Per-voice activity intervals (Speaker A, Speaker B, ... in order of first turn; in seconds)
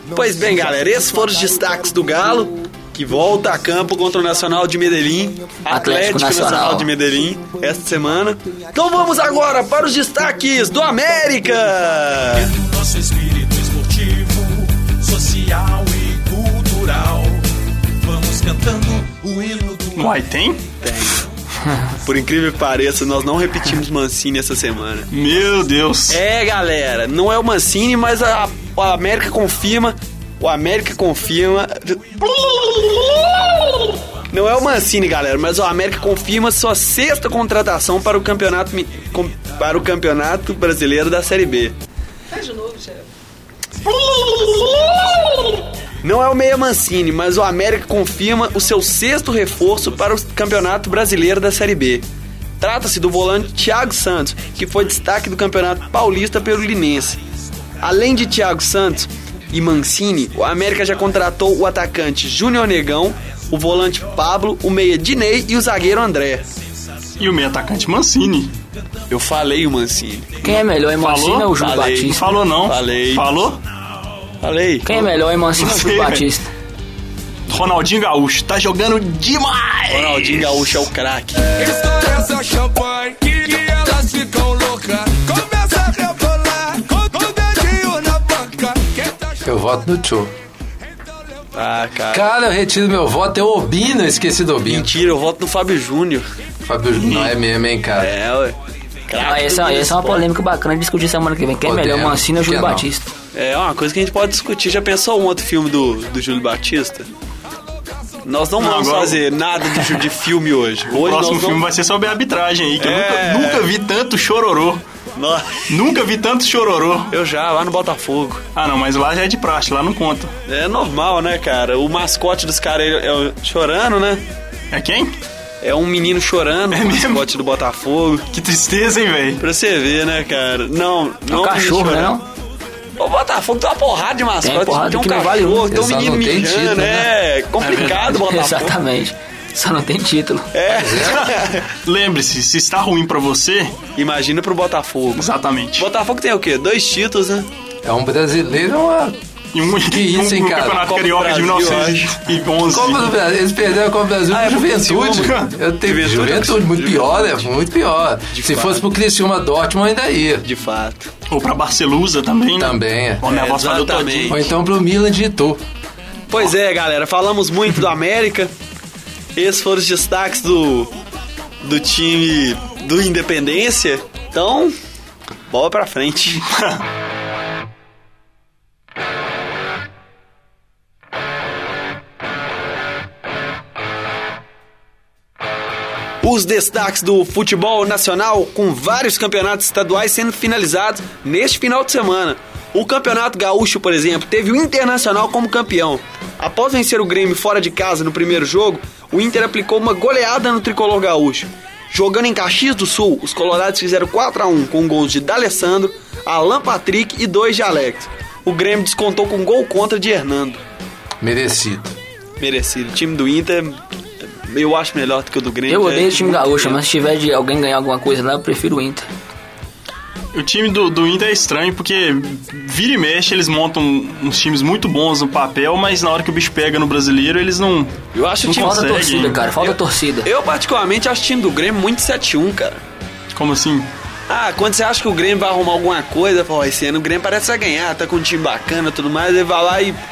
Speaker A: 0.1-12.6, 20.8-21.3, 22.0-25.1, 26.1-41.8, 44.0-45.1, 46.0-52.1, 52.6-57.2, 57.8-66.5, 69.1-70.6, 71.6-73.3, 74.4-75.0, 79.9-81.4, 91.5-92.3, 94.7-96.3, 98.0-98.6, 99.1-100.3, 103.3-107.1, 108.2-111.6, 112.8-113.7, 115.2-115.6, 117.1-118.4, 120.5-124.2, 125.6-128.3, 129.4-132.2, 133.0-138.8, 140.5-141.7, 144.0-147.5, 150.8-152.1, 154.3-157.5, 158.3-158.9, 160.4-161.1, 163.2-164.5, 166.3-168.5, 169.4-170.9, 171.6-174.7, 175.5-176.4, 186.2-210.6, 212.4-213.8, 214.4-216.8, 228.1-228.9, 229.6-232.8, 234.3-240.0
Speaker B: 5.7-6.9, 70.4-72.3, 74.8-76.5, 99.2-103.1, 131.3-132.2, 134.4-135.7, 137.8-140.5, 215.7-219.1, 228.5-230.3
Speaker C: 19.9-20.7, 25.1-26.2, 67.2-68.5, 71.0-71.5, 72.1-73.6, 75.6-76.3, 77.5-80.9, 108.6-109.2, 110.9-114.8, 115.7-117.1, 118.5-120.3, 124.7-125.2, 126.7-127.3, 128.3-129.4, 137.6-138.2, 141.8-143.8, 145.2-145.9, 149.5-153.1, 155.2-155.5, 161.3-164.5, 176.5-176.8, 220.3-229.4, 233.3-233.9
Speaker D: 81.6-89.4
Speaker E: 89.5-90.3, 92.1-94.9, 96.6-98.1, 101.6-102.9, 135.7-137.1, 140.7-141.3, 147.8-149.2, 149.7-150.8, 152.7-160.5, 162.6-163.2, 164.3-165.6, 211.2-212.0